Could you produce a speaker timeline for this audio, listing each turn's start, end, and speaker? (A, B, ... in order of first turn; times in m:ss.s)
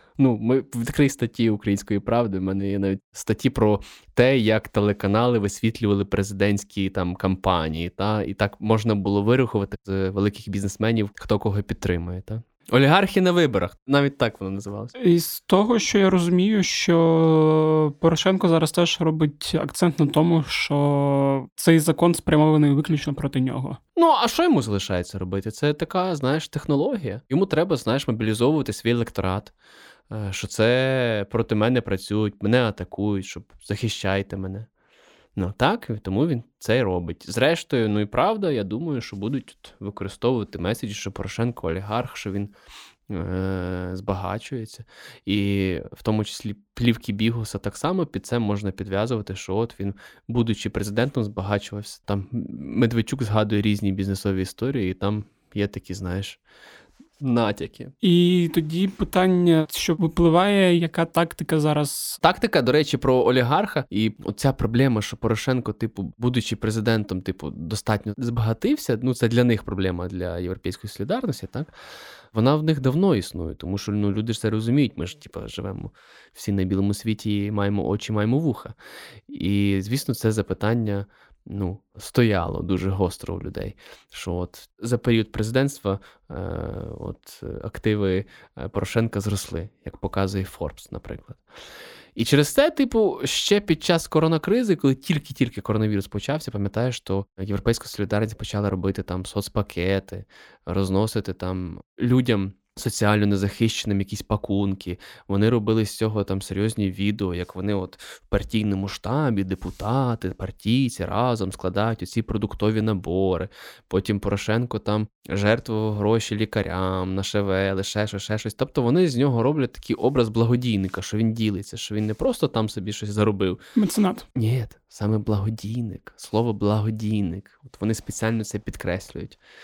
0:00.2-0:14.9 A
0:15.0-0:23.8 B
0:24.0-0:29.5 A
0:30.1-0:34.7 A
0:35.4-0:42.5 A
0:43.1-0:56.4 A
0:57.2-0:57.9 A
0:58.0-1:02.2 B
1:02.2-1:11.7 A
1:12.3-1:18.8 A
1:19.3-1:31.4 A
1:32.2-2:03.6 A
2:03.8-2:04.3 B
2:04.4-2:09.4 A